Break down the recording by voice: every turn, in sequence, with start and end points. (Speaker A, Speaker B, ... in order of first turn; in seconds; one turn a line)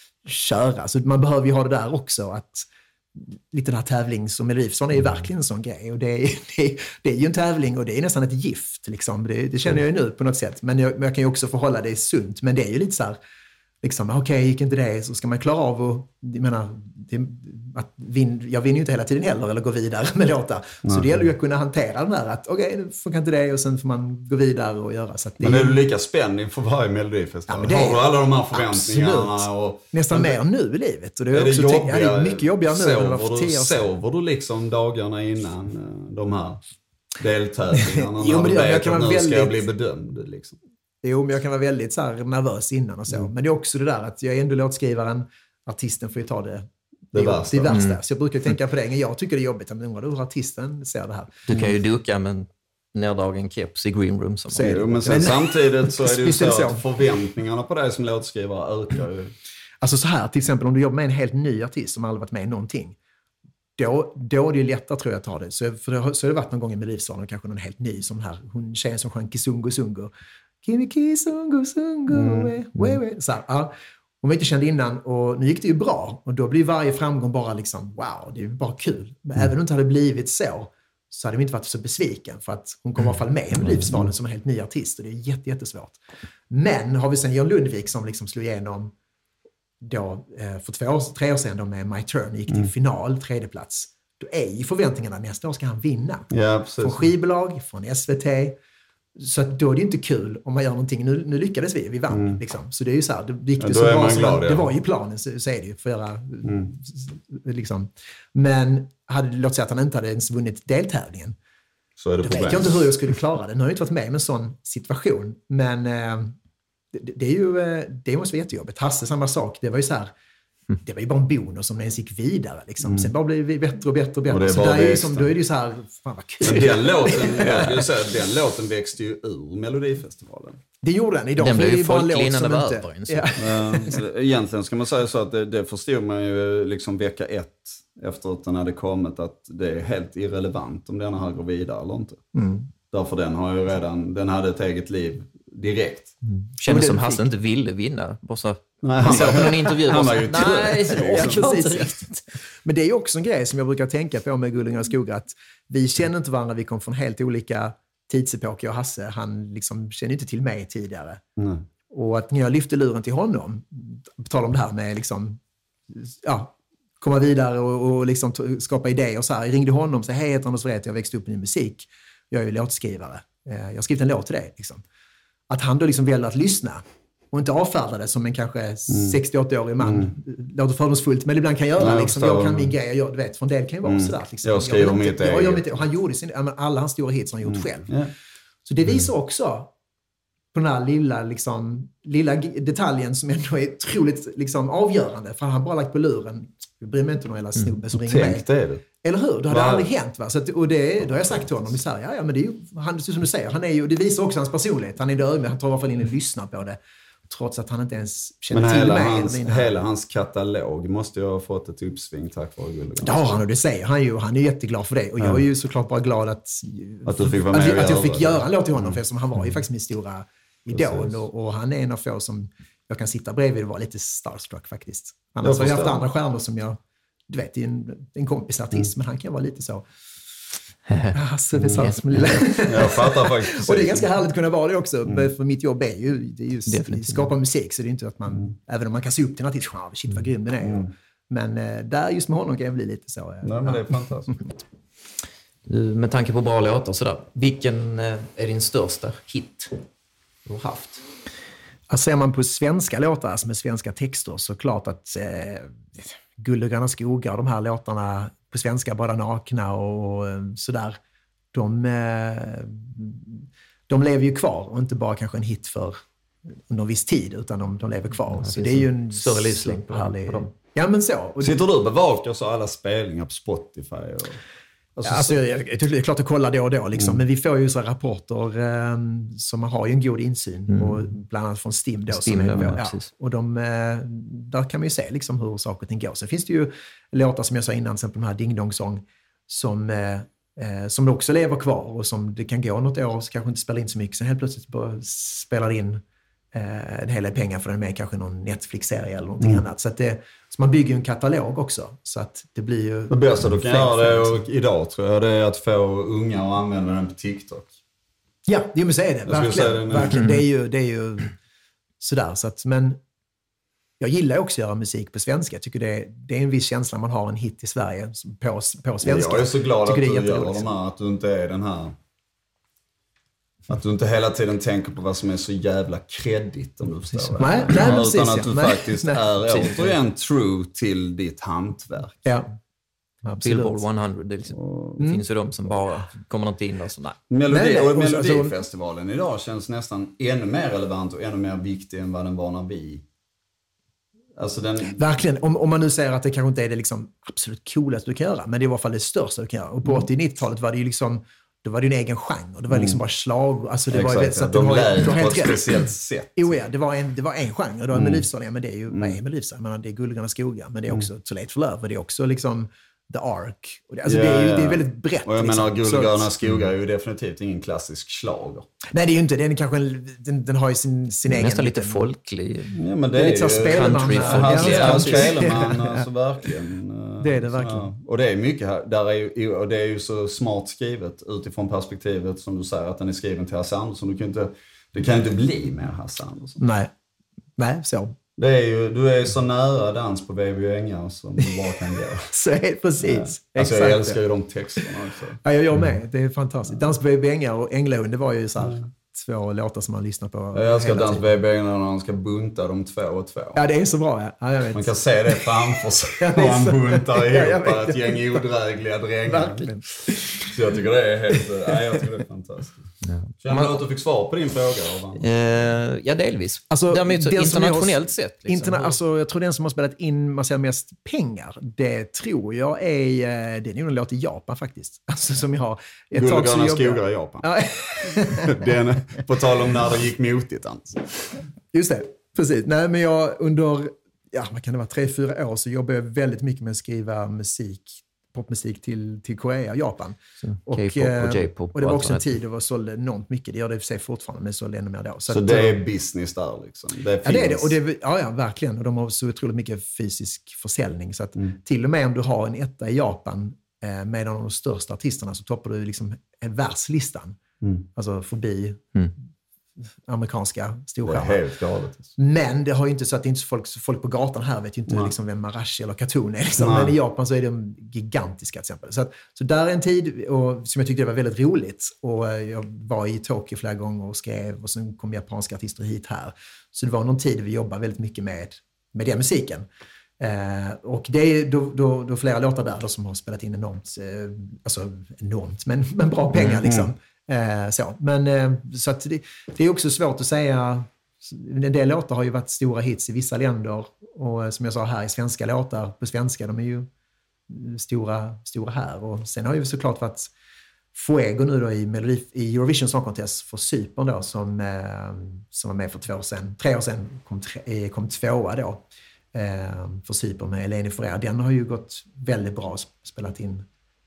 Speaker A: 0.2-13.2
Speaker A: 13.8-25.8
Speaker B: 20.8-21.2
Speaker B: 25.4-30.4
Speaker A: 27.5-33.9
Speaker B: 31.3-36.6
Speaker B: 37.2-40.6
Speaker A: 37.7-39.6
Speaker A: 41.0-51.3
Speaker B: 47.1-47.8
Speaker C: 47.7-48.0
Speaker C: 51.5-55.2
Speaker B: 54.5-59.3
Speaker A: 54.5-56.8
Speaker A: 59.8-63.0
Speaker A: 63.8-70.1
Speaker A: 70.6-86.0
Speaker B: 72.1-72.5
Speaker A: 86.5-88.9
Speaker A: 89.8-98.6
Speaker B: 96.3-97.1
Speaker A: 99.2-111.3
Speaker B: 102.1-102.4
Speaker B: 103.6-104.7
Speaker B: 106.4-106.7
Speaker B: 112.0-112.9
Speaker A: 112.2-116.3
Speaker A: 116.9-120.1
Speaker A: 120.8-127.9
Speaker B: 122.8-123.1
Speaker B: 124.3-125.3
Speaker B: 126.4-130.6
Speaker A: 130.8-134.0
Speaker C: 131.4-133.3
Speaker B: 133.4-142.2
Speaker A: 142.3-142.7
Speaker B: 142.9-146.1
Speaker C: 146.2-152.2
Speaker A: 146.7-147.3
Speaker B: 148.8-151.5
Speaker A: 149.0-149.5
Speaker A: 150.4-161.2
Speaker B: 161.4-161.6
Speaker A: 161.9-174.8
Speaker A: 175.5-187.9
Speaker B: 178.9-179.2
Speaker B: 179.8-180.1
Speaker B: 181.8-182.7
Speaker B: 183.8-185.6
Speaker B: 187.5-188.1
Speaker A: 188.7-189.7
Speaker A: 190.5-198.4
Speaker B: 197.9-198.8
Speaker A: 199.0-209.7
Speaker B: 199.5-199.9
Speaker B: 208.5-213.4
Speaker A: 213.0-229.8
Speaker B: 217.1-219.0
Speaker B: 220.7-221.1
Speaker B: 225.4-226.0
Speaker C: 230.9-231.2
Speaker A: 231.1-244.3
Speaker C: 231.7-232.0
Speaker B: 232.2-234.1
Speaker C: 236.7-237.2
Speaker B: 240.6-240.9
Speaker B: 243.4-244.3
Speaker C: 245.7-249.7
Speaker C: 250.4-251.0
Speaker A: 251.9-261.0
Speaker A: 261.5-266.0
Speaker A: 266.7-271.6
Speaker C: 268.3-270.5
Speaker B: 271.4-274.4
Speaker B: 274.9-275.4
Speaker A: 275.0-304.4
Speaker C: 280.7-281.0
Speaker C: 282.1-283.1
Speaker B: 303.1-307.7
Speaker A: 308.5-311.3
Speaker B: 309.2-310.2
Speaker A: 312.0-313.0
Speaker A: 314.0-320.7
Speaker B: 319.0-321.9
Speaker B: 323.7-332.3
Speaker C: 327.1-328.0
Speaker A: 327.4-329.2
Speaker C: 329.4-329.9
Speaker A: 332.2-332.5
Speaker A: 333.2-333.8
Speaker C: 333.4-337.2
Speaker B: 334.5-335.0
Speaker B: 337.3-343.0
Speaker A: 337.5-338.6
Speaker B: 344.4-345.0
Speaker A: 344.9-355.8
Speaker B: 352.7-353.0
Speaker B: 353.9-356.6
Speaker A: 356.4-366.3
Speaker B: 357.9-358.2
Speaker B: 358.9-359.2
Speaker B: 364.0-368.6
Speaker A: 368.9-372.0
Speaker C: 371.3-372.8
Speaker B: 372.8-386.6
Speaker A: 373.1-376.1
Speaker C: 373.6-375.3
Speaker A: 377.2-377.9
Speaker A: 386.6-386.9
Speaker A: 387.6-388.1
Speaker B: 388.4-392.3
Speaker A: 392.3-394.2
Speaker B: 393.0-395.4
Speaker A: 395.4-401.2
Speaker B: 400.5-403.6
Speaker A: 403.5-408.4
Speaker B: 404.7-409.8
Speaker A: 409.2-410.6
Speaker B: 410.4-412.9
Speaker A: 411.3-412.0
Speaker C: 413.0-413.8
Speaker B: 413.4-415.2
Speaker C: 415.2-418.9
Speaker A: 416.7-428.7
Speaker B: 426.1-431.4
Speaker A: 431.7-445.8
Speaker C: 440.4-442.4
Speaker B: 445.3-447.8
Speaker A: 447.2-457.4
Speaker A: 457.9-458.9
Speaker A: 460.0-461.4
Speaker B: 461.1-462.1
Speaker A: 462.2-479.6
Speaker B: 466.6-466.9
Speaker A: 480.2-496.9
Speaker B: 486.6-486.9
Speaker A: 497.5-500.3
Speaker A: 500.9-513.6